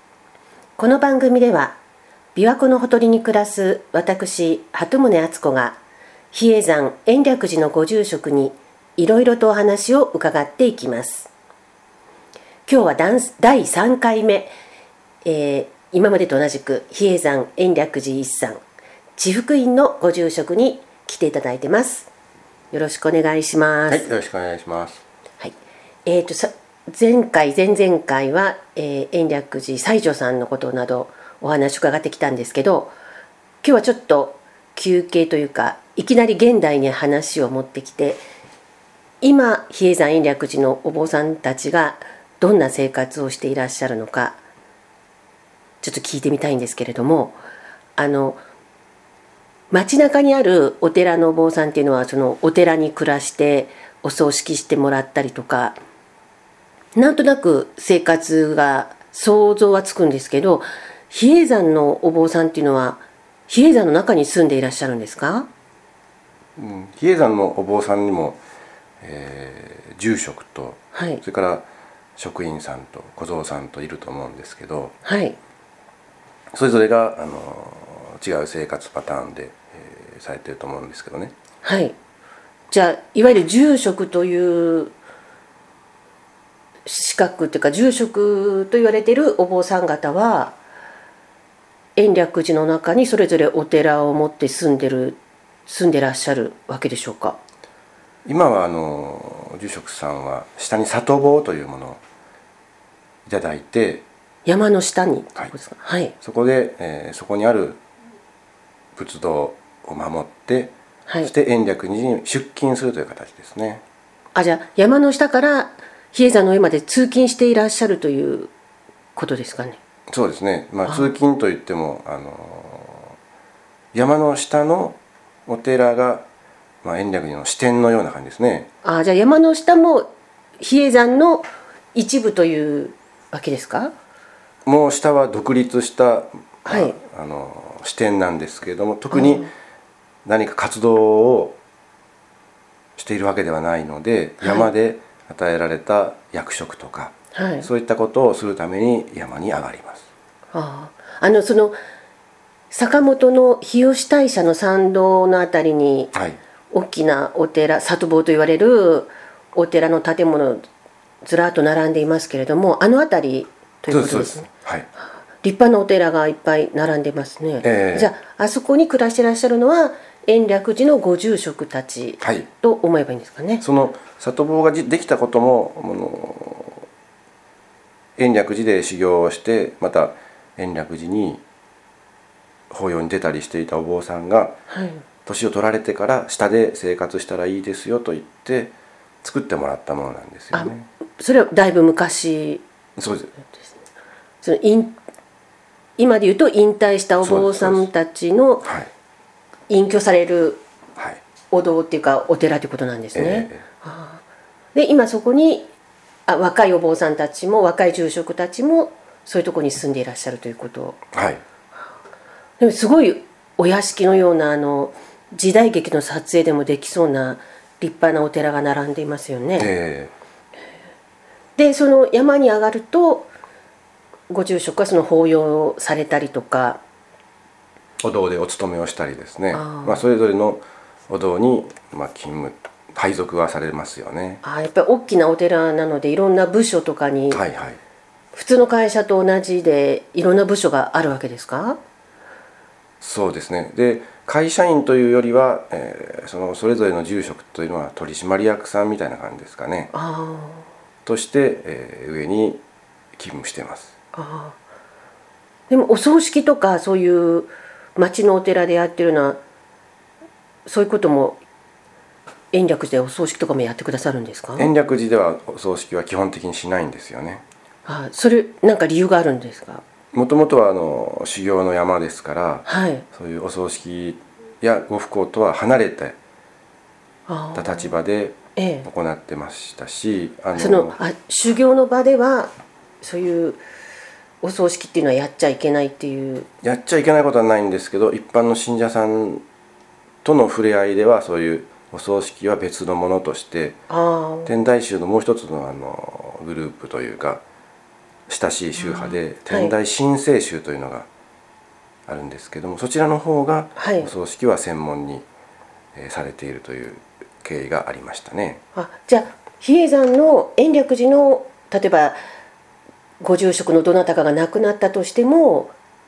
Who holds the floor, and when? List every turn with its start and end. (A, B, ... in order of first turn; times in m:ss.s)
0:00.8-0:01.8 A
0:02.4-0:05.8 A
0:06.3-0:11.3 A
0:12.7-0:14.5 A
0:15.2-0:18.6 A
0:19.2-0:22.1 A
0:22.7-0:24.1 A
0:23.9-0:25.0 B
0:25.4-0:33.0 A
0:33.6-0:38.2 A
0:39.2-0:44.4 A
0:45.8-0:47.4 A
0:48.0-0:48.4 A
0:49.7-0:55.8 A
0:57.0-1:05.5 A
1:06.6-1:08.4 B
1:09.0-1:15.0 B
1:10.9-1:11.2 A
1:15.0-1:15.4 A
1:16.5-1:21.3 B
1:21.6-1:22.0 A
1:22.7-1:24.9 A
1:26.9-1:30.6 A
1:32.0-1:37.4 A
1:38.2-1:42.0 B
1:43.3-1:44.0 B
1:44.5-1:46.1 A
1:46.2-1:47.8 B
1:49.0-1:53.8 B
1:54.4-1:58.5 A
1:59.2-1:59.8 A
2:00.1-2:03.2 B
2:00.9-2:01.1 A
2:03.9-2:06.3 B
2:06.8-2:08.7 B
2:08.8-2:10.1 A
2:10.6-2:13.9 A
2:14.6-2:19.5 B
2:16.7-2:17.0 A
2:19.1-2:19.5 A
2:20.2-2:21.6 B
2:23.0-2:30.1 B
2:24.4-2:24.7 A
2:27.3-2:27.7 A
2:30.5-2:31.8 A
2:32.7-2:36.1 A
2:36.7-2:40.6 A
2:41.2-2:44.5 A
2:43.9-2:44.9 B
2:45.4-2:53.6 A
2:47.6-2:48.1 B
2:52.2-2:52.5 B
2:53.6-2:56.9 B
2:58.2-3:01.4 B
3:02.7-3:04.6 B
3:04.7-3:05.0 A
3:05.3-3:10.9 B
3:10.5-3:12.6 A
3:13.0-3:13.3 B
3:14.4-3:15.0 A
3:16.0-3:18.7 A
3:17.2-3:17.9 B
3:18.6-3:18.9 B
3:19.7-3:20.6 A
3:21.0-3:21.2 B
3:21.5-3:24.2 A
3:23.2-3:23.6 B
3:24.8-3:25.7 A
3:26.3-3:31.0 A
3:31.1-3:31.4 B
3:32.6-3:39.7 A
3:39.6-3:40.1 B
3:41.6-3:43.3 A
3:44.3-3:46.8 A
3:48.0-3:54.4 B
3:49.5-3:50.0 A
3:54.4-3:57.4 A
3:57.3-3:57.8 B
3:58.3-4:01.8 A
4:03.0-4:09.9 B
4:09.9-4:10.7 A
4:11.1-4:12.6 B
4:13.2-4:13.9 B
4:14.2-4:14.6 A
4:15.7-4:19.4 A
4:20.7-4:21.4 A
4:22.5-4:24.7 A
4:24.6-4:27.4 B
4:27.9-4:29.8 A
4:30.1-4:36.2 B
4:32.7-4:33.0 A
4:37.3-4:37.9 A
4:37.6-4:41.0 B
4:38.6-4:38.9 A
4:40.6-4:43.6 A
4:44.4-4:46.5 A
4:46.6-4:49.4 B
4:50.2-4:53.8 B
4:53.9-4:54.5 A
4:54.5-4:57.4 B
4:58.3-5:01.1 B
4:58.8-4:59.8 A
5:02.1-5:05.3 B
5:03.8-5:04.1 A
5:06.0-5:08.6 B
5:08.8-5:12.2 A
5:13.2-5:15.8 A